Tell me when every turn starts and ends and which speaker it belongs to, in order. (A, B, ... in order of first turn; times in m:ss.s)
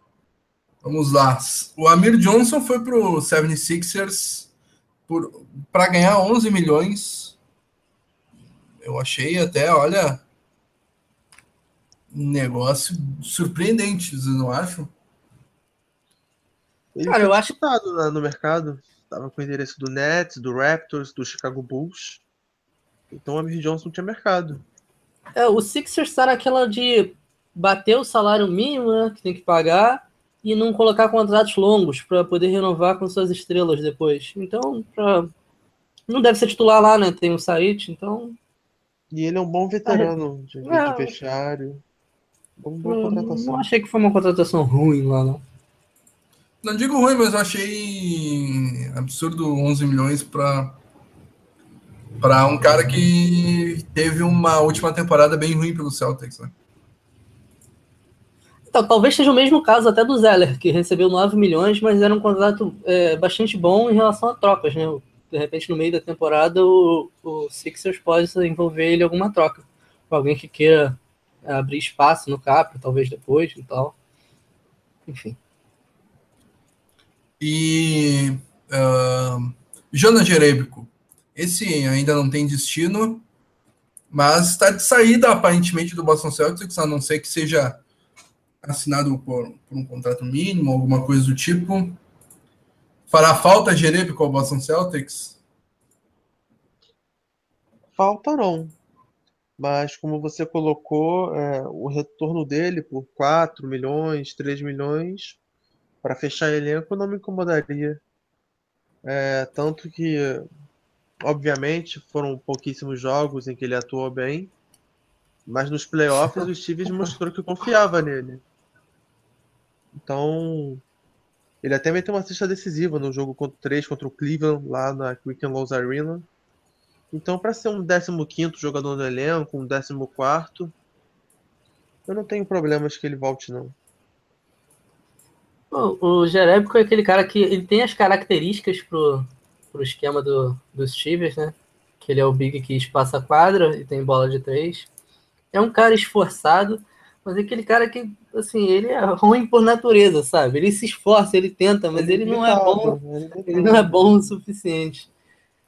0:00.8-0:04.5 A
0:05.1-0:07.4 A
0:08.8-0:10.2 A
0:12.1-0:14.9 A
0:17.0-0:22.2 B
0:17.1-0:17.5 C
0:23.1-0:24.6 B
0:25.4-0:35.3 C
0:36.1-0:38.4 C
0:39.1-0:41.8 B
0:39.9-0:40.1 C
0:40.6-0:41.2 C
0:42.6-0:43.6 B
0:42.8-0:45.4 C
0:46.6-0:50.8 A
0:52.2-0:56.5 A
0:58.7-1:14.0 C
1:15.1-1:15.4 C
1:17.4-1:23.2 A
1:24.1-1:27.8 A
1:28.6-1:32.0 A
1:33.1-1:35.4 A
1:38.0-1:38.8 B
1:39.6-1:45.4 B
1:46.0-1:48.0 B
1:49.0-1:50.5 B
1:51.2-1:54.5 B
1:55.5-1:58.4 B
2:00.0-2:00.8 B
2:01.6-2:06.3 B
2:07.1-2:10.7 B
2:12.1-2:13.8 B
2:15.7-2:24.9 C
2:25.5-2:35.1 C
2:32.0-2:34.2 B